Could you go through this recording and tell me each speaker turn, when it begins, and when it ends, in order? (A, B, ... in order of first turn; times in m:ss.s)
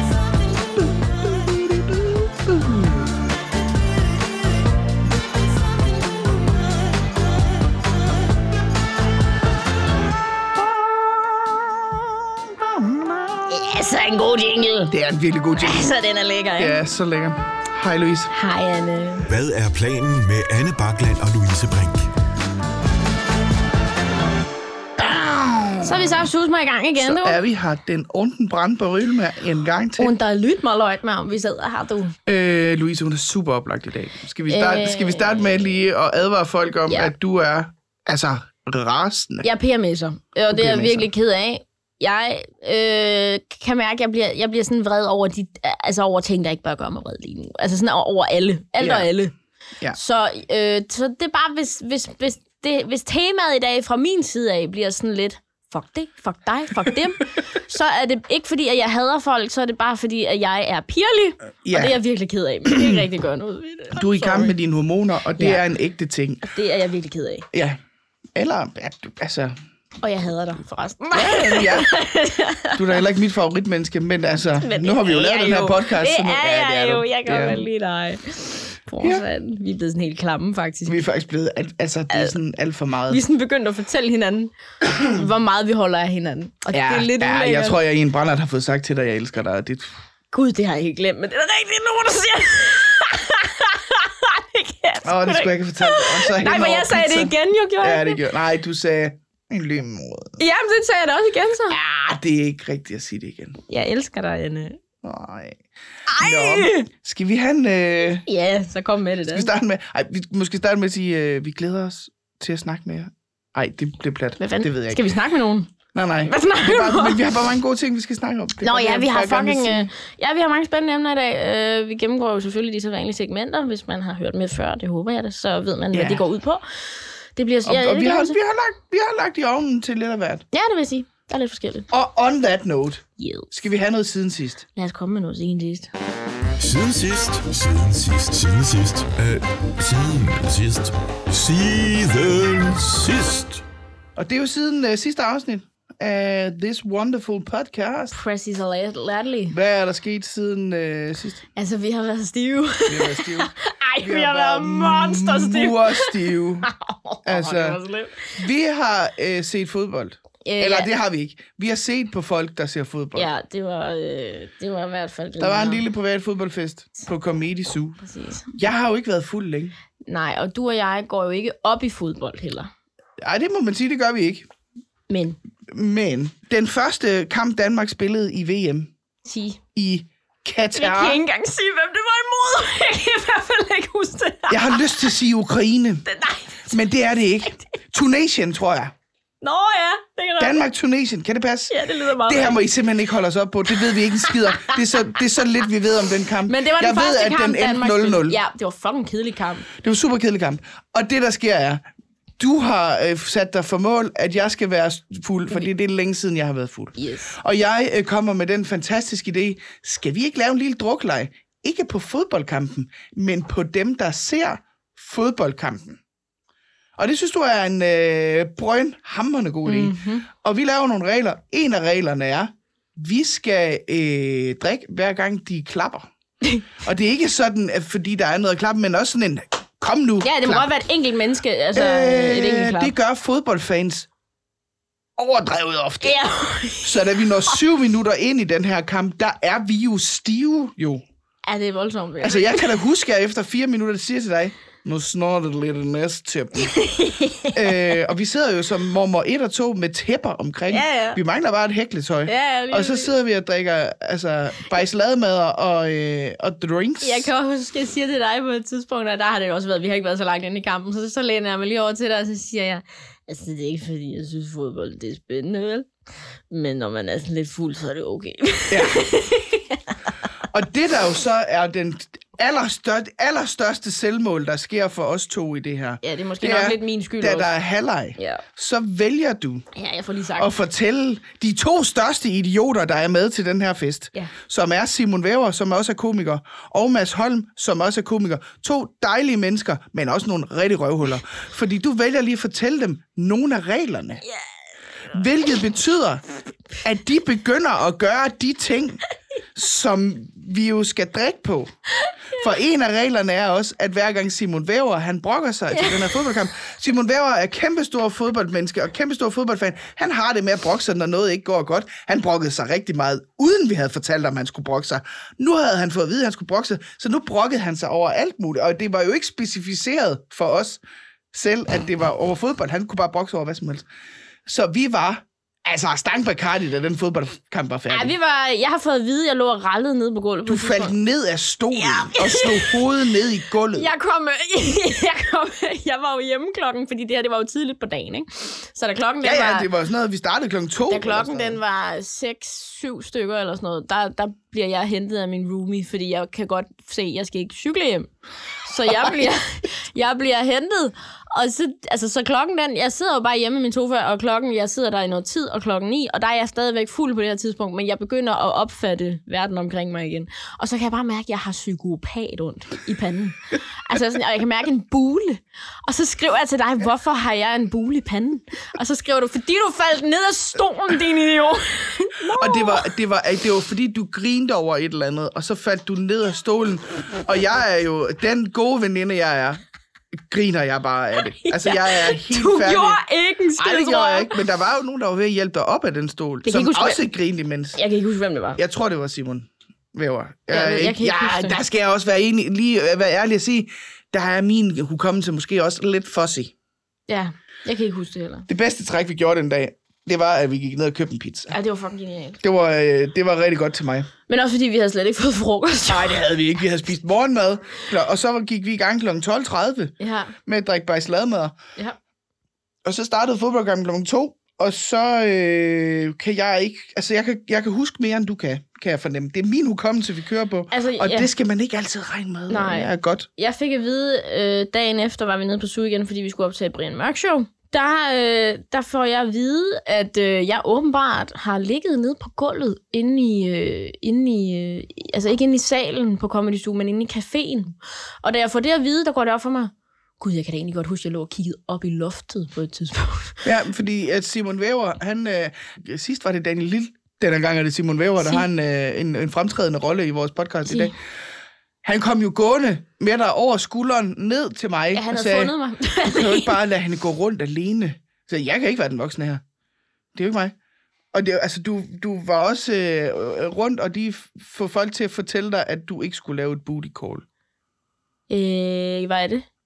0:00.8-0:03.1 A
0:10.6-0:13.5 A
0:13.5-0:14.9 B
0:14.9-0:15.9 A
0:15.6-0:16.8 B
0:16.6-0:18.3 A
0:18.3-0:19.3 B
0:19.2-0:22.1 C
0:25.0-0:26.3 A
0:25.8-0:27.4 B
0:27.0-0:30.1 A
0:30.0-0:32.2 B
0:32.3-0:39.5 A
0:34.5-0:35.6 B
0:39.4-0:49.3 B
0:40.5-0:41.1 A
0:48.8-0:49.1 A
0:49.9-1:04.6 B
1:01.6-1:02.0 A
1:02.6-1:03.1 A
1:04.0-1:06.4 A
1:05.4-1:05.6 B
1:06.4-1:07.5 B
1:07.5-1:07.8 A
1:08.4-1:09.6 A
1:10.0-1:13.0 B
1:11.1-1:11.9 A
1:12.7-1:17.6 A
1:14.6-1:21.0 B
1:20.9-1:23.2 A
1:23.1-1:27.8 B
1:26.7-1:29.9 A
1:30.3-1:38.2 B
1:35.0-1:40.4 A
1:40.4-1:41.8 B
1:41.7-1:43.6 A
1:43.7-1:44.8 B
1:45.0-1:45.6 A
1:46.1-1:46.9 B
1:46.2-1:48.2 A
1:48.2-1:49.5 B
1:49.3-1:55.0 A
1:54.4-1:55.7 B
1:55.9-1:59.9 A
1:56.2-1:57.2 B
1:58.6-2:06.6 B
2:05.9-2:06.2 A
2:07.4-2:08.4 B
2:07.6-2:10.4 A
2:10.5-2:11.9 B
2:11.9-2:14.6 A
2:13.2-2:13.5 B
2:14.8-2:15.9 B
2:16.6-2:23.6 C
2:24.2-2:28.2 A
2:28.1-2:29.6 B
2:29.5-2:31.4 A
2:31.6-2:38.4 B
2:32.9-2:36.7 A
2:37.2-2:37.8 A
2:38.4-2:43.3 A
2:40.4-2:40.9 B
2:43.2-2:45.8 B
2:45.4-2:48.0 A
2:48.0-2:48.5 B
2:48.5-2:49.7 A
2:50.1-2:52.7 B
2:53.2-2:54.5 A
2:55.1-2:55.4 B
2:55.7-2:58.9 A
2:59.2-2:59.6 B
2:59.8-3:01.2 A
3:00.7-3:05.2 B
3:04.5-3:06.0 A
3:06.1-3:06.8 B
3:06.7-3:08.9 A
3:09.4-3:10.6 B
3:10.4-3:18.4 A
3:11.7-3:12.6 B
3:13.9-3:15.0 B
3:16.5-3:19.7 B
3:19.7-3:21.8 A
3:22.4-3:36.0 A
3:27.0-3:27.3 B
3:37.0-3:46.1 A
3:39.7-3:40.3 B
3:46.8-3:50.7 A
3:50.2-3:52.9 B
3:51.7-3:54.1 A
3:55.2-3:56.2 A
3:56.0-3:57.6 B
3:56.8-4:01.0 A
4:01.5-4:02.7 B
4:02.2-4:06.8 A
4:06.6-4:08.0 B
4:07.5-4:17.3 A
4:10.7-4:11.2 B
4:12.3-4:13.1 B
4:17.0-4:25.9 B
4:26.5-4:30.0 B
4:28.7-4:29.0 A
4:30.5-4:39.6 A
4:36.0-4:37.5 B
4:38.2-4:38.4 B
4:39.7-4:40.5 B
4:40.4-4:54.2 A
4:55.1-4:56.2 A
4:56.8-4:59.0 A
4:59.6-5:01.7 A
5:02.3-5:20.8 A
5:05.7-5:06.4 B
5:21.3-5:23.9 A
5:24.5-5:28.1 A
5:27.9-5:30.9 B
5:30.5-5:33.9 A
5:31.8-5:32.8 B
5:33.7-5:39.7 B
5:39.2-5:41.6 A
5:40.9-6:12.9 B
5:48.9-5:49.3 A
6:12.3-6:19.6 A
6:20.1-6:23.0 A
6:21.2-6:24.4 B
6:23.6-6:27.8 A
6:26.4-6:27.0 B
6:27.8-6:28.6 B
6:28.6-6:36.5 A
6:30.5-6:31.6 B
6:37.1-6:38.5 B
6:38.5-6:41.5 A
6:41.5-6:42.4 B
6:42.4-6:44.1 A
6:44.3-6:46.3 B
6:45.9-6:50.0 A
6:50.0-6:50.3 B
6:50.5-6:51.6 A
6:52.8-7:03.3 A
7:00.7-7:01.3 B
7:02.5-7:23.4 B
7:23.4-7:31.0 A
7:28.2-7:28.4 B
7:30.7-7:30.9 B
7:31.8-7:35.5 A
7:34.9-7:36.6 B
7:36.0-7:39.4 A
7:40.2-7:40.6 A
7:41.1-7:47.2 A
7:48.3-7:49.4 B